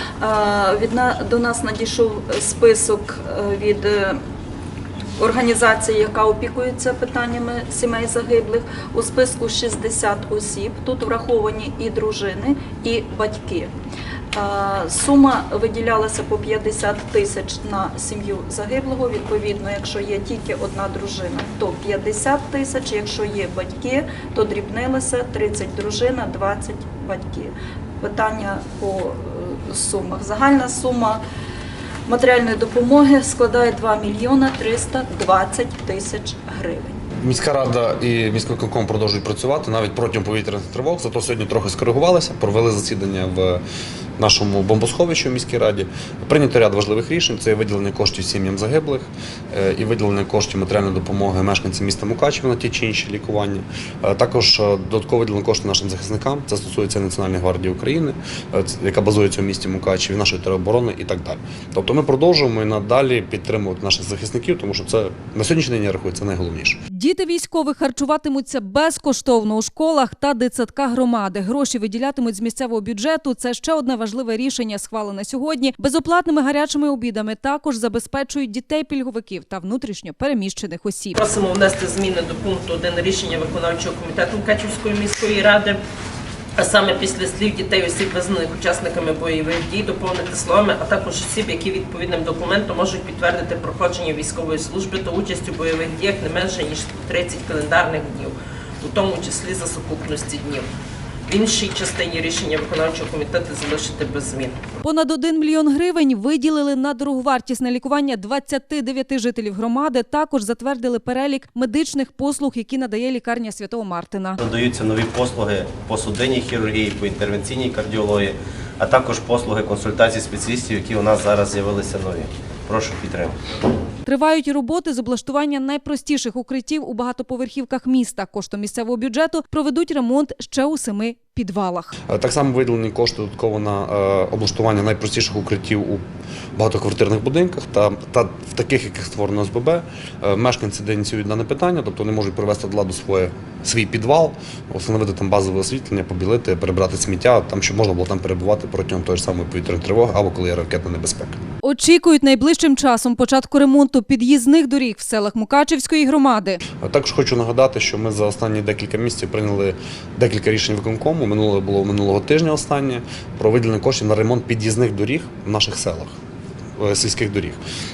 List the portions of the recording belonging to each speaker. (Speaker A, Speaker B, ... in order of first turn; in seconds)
Speaker A: 0.2-4.2, 5.2-13.7, 14.3-31.2, 32.1-37.0
Speaker B: 37.2-43.6, 44.2-66.8, 132.1-136.0, 136.6-151.4, 156.8-166.1, 166.8-167.6
Speaker C: 66.9-81.2, 104.8-114.4, 124.0-131.9, 151.6-156.6
Speaker D: 81.2-85.8, 86.6-100.7, 101.3-104.6
Speaker E: 114.4-123.3